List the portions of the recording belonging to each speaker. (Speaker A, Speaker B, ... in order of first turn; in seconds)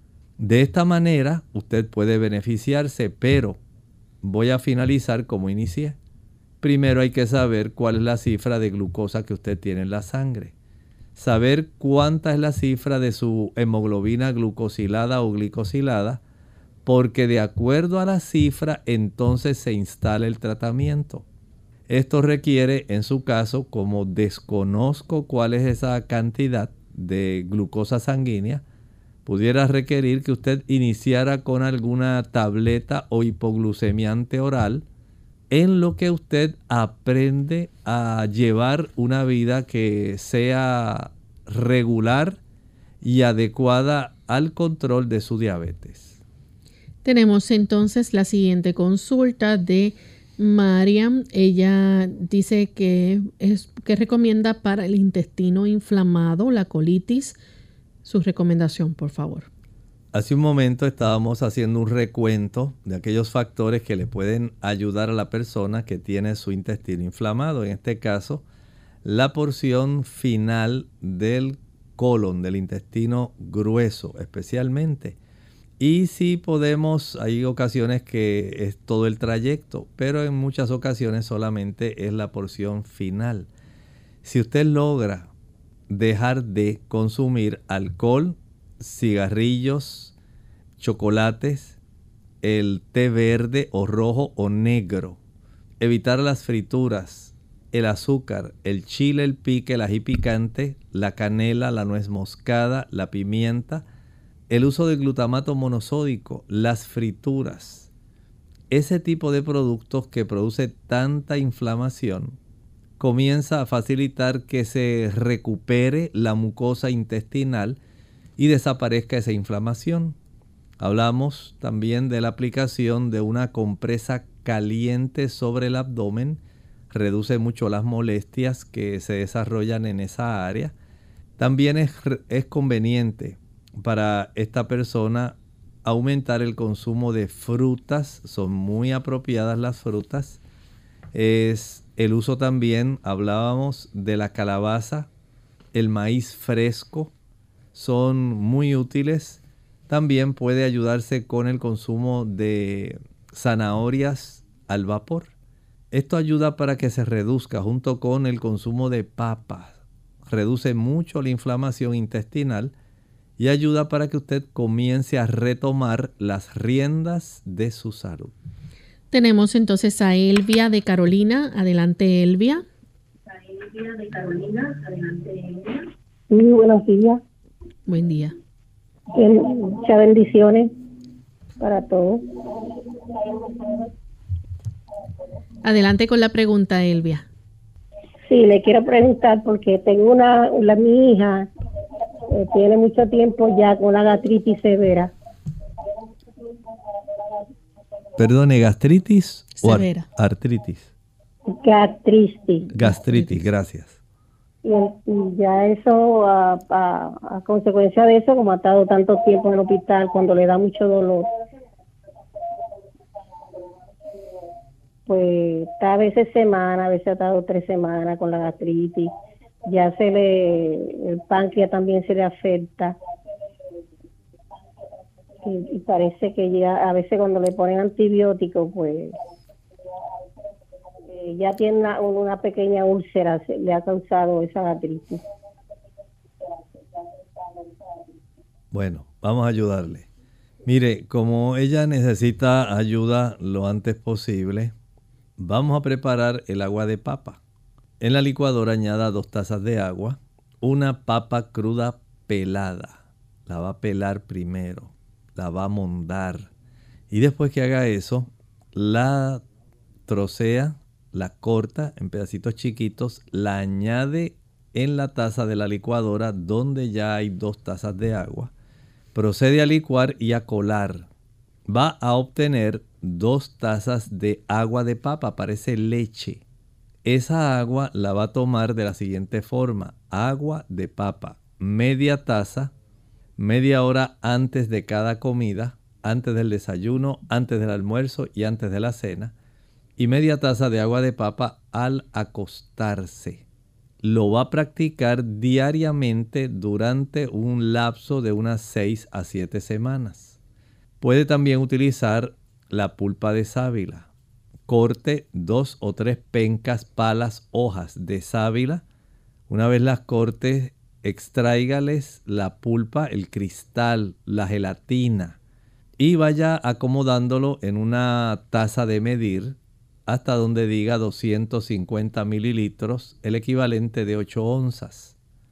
Speaker A: 0.4-3.6, 4.2-6.0, 6.6-10.5, 11.2-16.2, 16.9-21.2, 21.9-28.6, 29.3-34.9, 35.5-42.4, 43.0-46.2, 60.1-68.4, 69.0-75.2, 75.8-83.5, 84.2-85.3, 85.9-90.1, 90.8-91.8, 92.4-95.2, 95.8-103.8, 104.5-107.9, 108.7-112.4, 113.0-117.8, 118.4-120.2, 120.8-130.7, 131.4-140.4, 141.1-145.1, 145.7-147.1, 147.7-155.3, 155.9-162.7, 163.4-168.3, 198.2-200.9, 202.7-204.0, 238.7-240.1, 240.7-244.7, 245.4-247.4, 248.0-256.5, 257.1-259.4, 260.1-268.5, 269.1-271.1, 271.7-276.4, 277.1-282.7, 283.4-289.3, 290.0-293.4, 294.0-300.4, 301.0-304.1, 304.7-308.8, 309.5-315.4, 316.0-319.6, 320.1-325.1
Speaker B: 47.0-57.4, 58.0-59.5, 169.1-172.7, 177.9-178.3, 185.6-187.3, 199.6-200.1, 202.7-203.5
Speaker C: 173.3-177.2, 179.2-180.7, 181.6-183.9, 188.3-191.5, 192.3-195.1, 201.5-202.7, 204.6-211.3, 215.1-219.1, 219.7-223.0, 225.4-229.2, 231.1-235.2